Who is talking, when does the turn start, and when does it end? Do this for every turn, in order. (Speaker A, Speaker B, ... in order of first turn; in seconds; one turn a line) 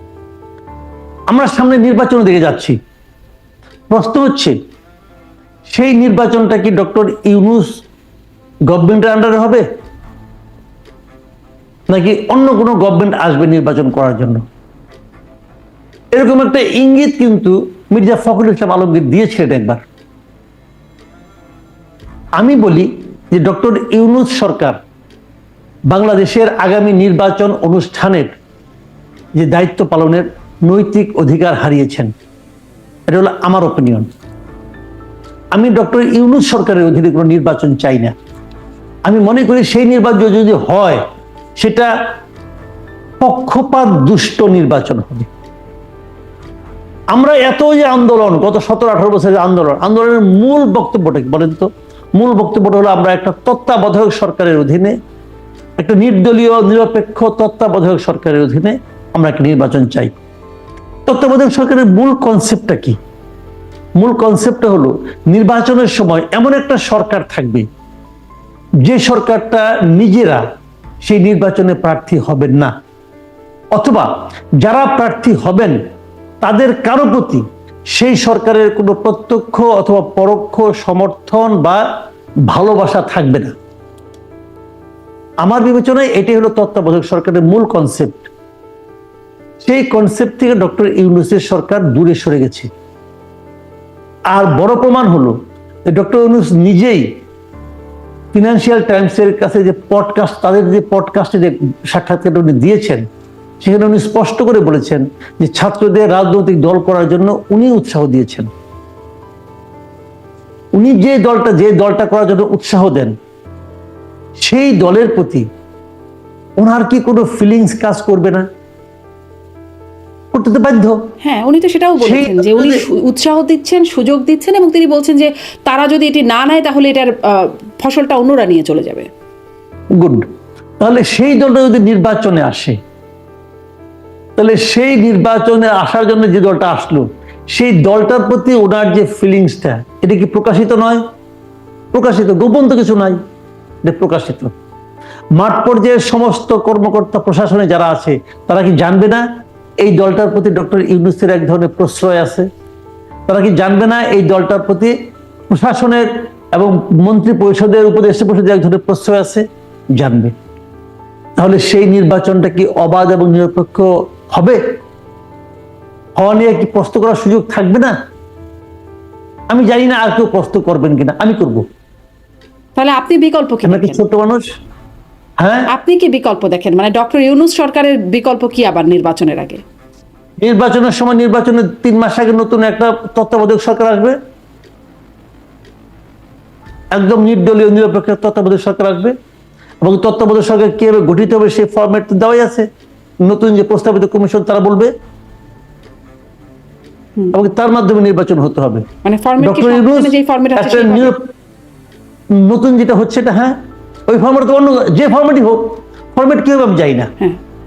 Speaker A: 1.3-2.8
Speaker A: 3.9-4.6
Speaker A: 5.7-7.8
Speaker A: 8.7-9.6
Speaker A: 11.9-14.4
Speaker A: 16.1-19.9
Speaker A: 22.4-24.8
Speaker A: 25.9-28.4
Speaker A: 29.4-32.1
Speaker A: 33.1-34.1
Speaker A: 35.5-38.1
Speaker A: 39.1-41.0
Speaker A: 41.6-41.9
Speaker A: 43.2-45.3
Speaker A: 47.1-54.9
Speaker A: 55.8-60.1
Speaker A: 61.1-63.0
Speaker A: 64.0-67.7
Speaker A: 68.8-70.5
Speaker A: 71.0-72.7
Speaker A: 73.7-75.8
Speaker A: 76.4-81.8
Speaker A: 82.5-83.5
Speaker A: 85.4-88.3
Speaker A: 89.6-92.7
Speaker A: 94.3-95.3
Speaker A: 95.9-97.1
Speaker A: 98.3-103.0
Speaker A: 103.6-108.5
Speaker A: 110.7-113.1
Speaker A: 114.4-115.5
Speaker A: 116.6-118.5
Speaker A: 120.3-121.0
Speaker B: 121.2-129.1
Speaker A: 122.0-122.8
Speaker A: 130.0-130.2
Speaker A: 130.8-132.8
Speaker A: 134.4-141.0
Speaker A: 141.9-143.2
Speaker A: 143.8-144.5
Speaker A: 145.4-149.2
Speaker A: 149.8-152.5
Speaker A: 153.3-154.9
Speaker A: 155.5-160.3
Speaker A: 161.4-164.6
Speaker A: 166.2-167.9
Speaker A: 169.5-171.6
Speaker B: 172.8-174.0
Speaker A: 173.7-174.4
Speaker A: 175.4-175.7
Speaker B: 175.7-179.6
Speaker A: 180.4-184.2
Speaker A: 186.9-189.2
Speaker A: 189.8-192.7
Speaker A: 193.2-194.9
Speaker A: 197.3-198.9
Speaker B: 199.0-201.2
Speaker A: 199.4-201.3
Speaker A: 202.3-203.6
Speaker A: 204.1-207.1